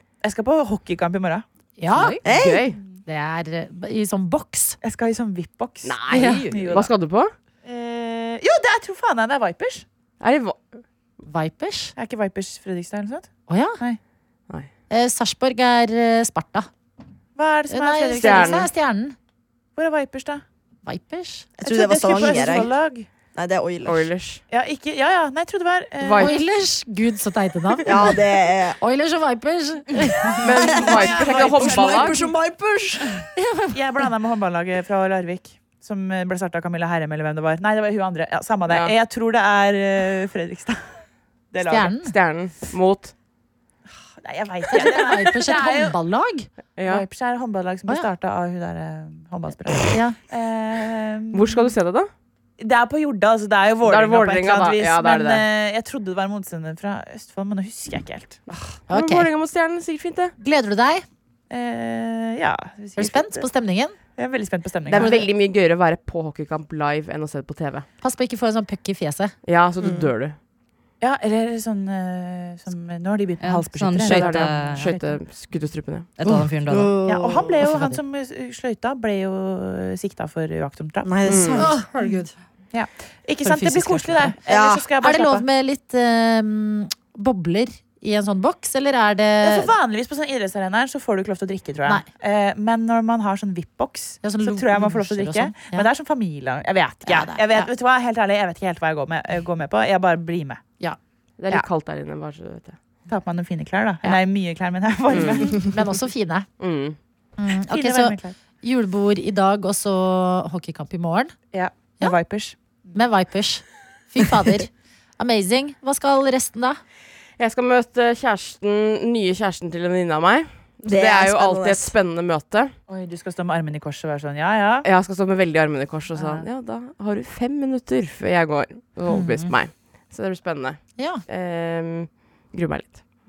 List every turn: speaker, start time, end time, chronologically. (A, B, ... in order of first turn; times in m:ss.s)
0:00.2-0:01.4 A
0:01.8-0:02.2 B
0:01.9-0:02.2 C
0:02.2-0:02.6 D
0:02.3-0:02.8 E
0:03.1-0:04.8 B
0:04.8-0:06.9 A
0:05.8-0:07.3 E
0:06.1-0:06.5 B
0:07.6-0:09.8 A
0:10.2-0:10.8 E
0:11.3-0:11.9 B
0:12.0-0:14.0 A
0:13.5-0:13.8 B
0:14.9-0:16.7 B
0:17.4-0:18.7 A
0:17.7-0:19.2 B
0:18.2-0:18.7 E
0:19.8-0:20.4 A
0:20.9-0:21.5 B
0:21.6-0:22.7 D
0:21.6-0:23.1 A
0:23.4-0:24.1 D
0:23.8-0:24.4 E
0:24.5-0:26.4 A
0:26.0-0:26.4 E
0:26.2-0:28.2 B
0:27.8-0:28.8 D
0:28.8-0:31.2 B
0:30.4-0:32.1 E
0:30.6-0:33.3 D
0:30.7-0:32.3 A
0:33.4-0:33.8 B
0:33.7-0:41.0 A
0:38.7-0:38.9 E
0:41.5-0:41.9 A
0:41.7-0:42.1 B
0:42.0-0:43.1 E
0:44.2-0:46.0 A
0:44.7-0:46.5 B
0:46.8-0:47.0 E
0:46.8-0:51.7 A
0:49.9-0:50.2 B
0:51.3-0:52.1 E
0:52.6-0:58.4 A
0:53.8-0:55.4 E
0:58.5-1:00.4 E
0:58.9-0:59.3 B
1:00.4-1:01.0 B
1:01.5-1:03.5 A
1:03.0-1:04.0 B
1:04.2-1:05.1 A
1:04.9-1:07.9 E
1:08.0-1:09.3 B
1:09.4-1:10.4 E
1:09.8-1:10.1 D
1:11.0-1:15.2 A
1:13.4-1:14.9 C
1:14.0-1:16.1 E
1:16.2-1:17.0 C
1:16.7-1:17.6 D
1:17.0-1:22.2 A
1:17.7-1:17.9 C
1:21.0-1:21.8 D
1:21.3-1:21.6 E
1:21.6-1:22.3 B
1:22.7-1:25.4 A
1:23.4-1:24.4 B
1:24.5-1:24.8 D
1:25.0-1:29.7 B
1:29.4-1:40.6 A
1:34.2-1:35.9 B
1:37.1-1:37.7 B
1:41.4-1:42.8 E
1:43.1-1:45.8 A
1:45.1-1:45.7 E
1:45.6-1:46.5 B
1:46.6-1:47.0 E
1:47.4-1:51.4 B
1:47.7-1:48.4 A
1:51.5-1:53.0 A
1:53.0-1:56.8 B
1:57.4-2:02.8 E
2:00.8-2:01.9 D
2:02.9-2:04.9 A
2:04.8-2:13.0 E
2:06.1-2:06.5 A
2:09.1-2:09.6 B
2:11.0-2:11.2 B